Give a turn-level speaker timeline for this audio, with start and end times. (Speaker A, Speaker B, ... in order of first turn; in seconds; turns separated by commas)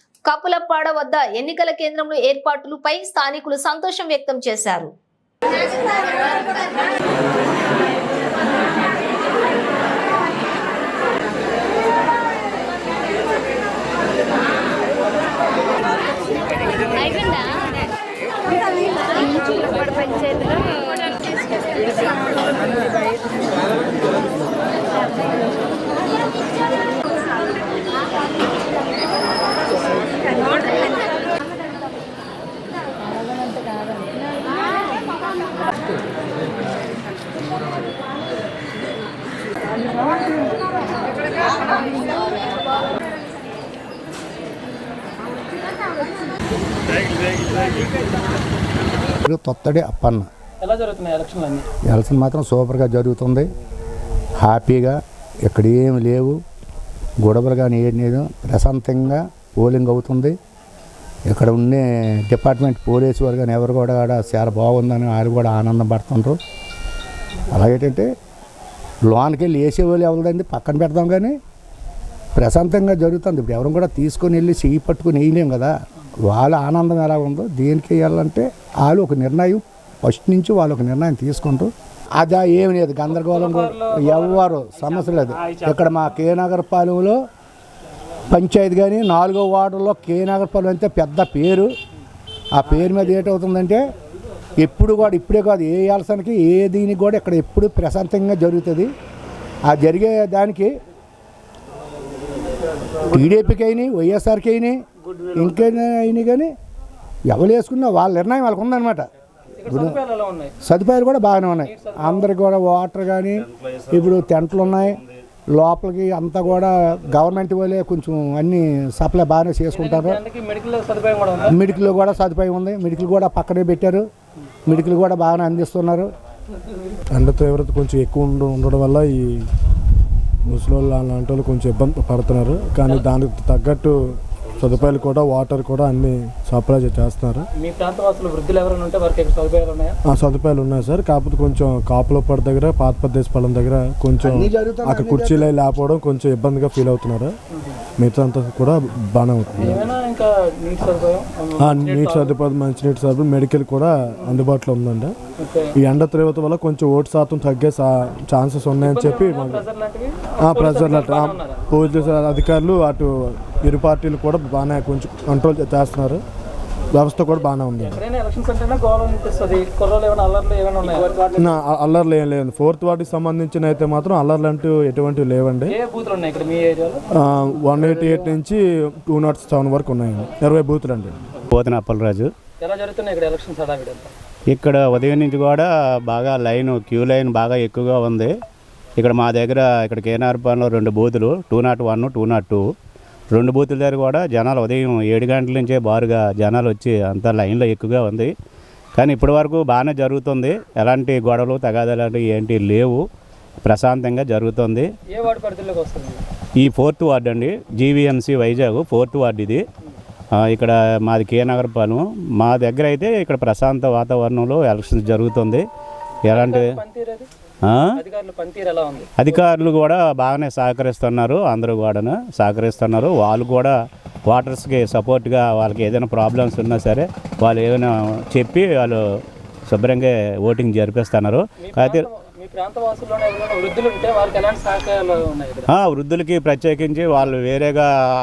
Speaker A: 0.3-4.9, Speaker B: 49.2-50.3, Speaker C: 50.6-51.7, Speaker B: 51.9-53.5, Speaker B: 54.4-56.4, Speaker B: 57.2-60.3, Speaker B: 61.3-66.4, Speaker B: 67.5-68.1, Speaker B: 69.0-71.3, Speaker B: 72.3-87.2, Speaker C: 83.2-85.6, Speaker B: 88.3-91.7, Speaker B: 92.5-93.8, Speaker B: 94.6-98.9, Speaker B: 99.7-100.7, Speaker B: 103.1-104.8, Speaker B: 105.3-106.5, Speaker B: 107.3-109.0, Speaker C: 109.6-110.5, Speaker B: 109.7-110.0, Speaker B: 110.6-115.0, Speaker C: 111.6-112.3, Speaker B: 115.5-120.2, Speaker C: 119.7-121.6, Speaker B: 121.5-124.0, Speaker B: 124.7-126.1, Speaker D: 127.1-129.4, Speaker D: 130.4-137.5, Speaker C: 137.6-139.9, Speaker D: 140.1-147.3, Speaker B: 144.2-145.5, Speaker C: 147.5-147.8, Speaker D: 148.0-149.8, Speaker C: 149.6-152.4, Speaker D: 151.6-155.1, Speaker C: 155.4-155.7, Speaker D: 155.8-159.6, Speaker C: 158.8-161.6, Speaker D: 160.4-166.2, Speaker D: 166.9-168.0, Speaker C: 167.8-171.4, Speaker D: 171.3-175.8, Speaker C: 175.7-177.0, Speaker D: 177.1-181.1, Speaker E: 181.5-182.3, Speaker C: 182.6-184.1, Speaker E: 184.5-188.3, Speaker E: 189.0-192.6, Speaker E: 193.3-198.3, Speaker E: 199.0-203.0, Speaker E: 203.6-204.9, Speaker C: 205.1-206.2, Speaker E: 206.6-209.6, Speaker E: 210.4-215.6, Speaker E: 216.2-216.8, Speaker C: 216.3-217.3, Speaker C: 218.0-219.1, Speaker E: 219.2-223.7, Speaker E: 224.3-229.0, Speaker E: 229.7-232.1, Speaker C: 231.6-235.7, Speaker E: 235.7-237.9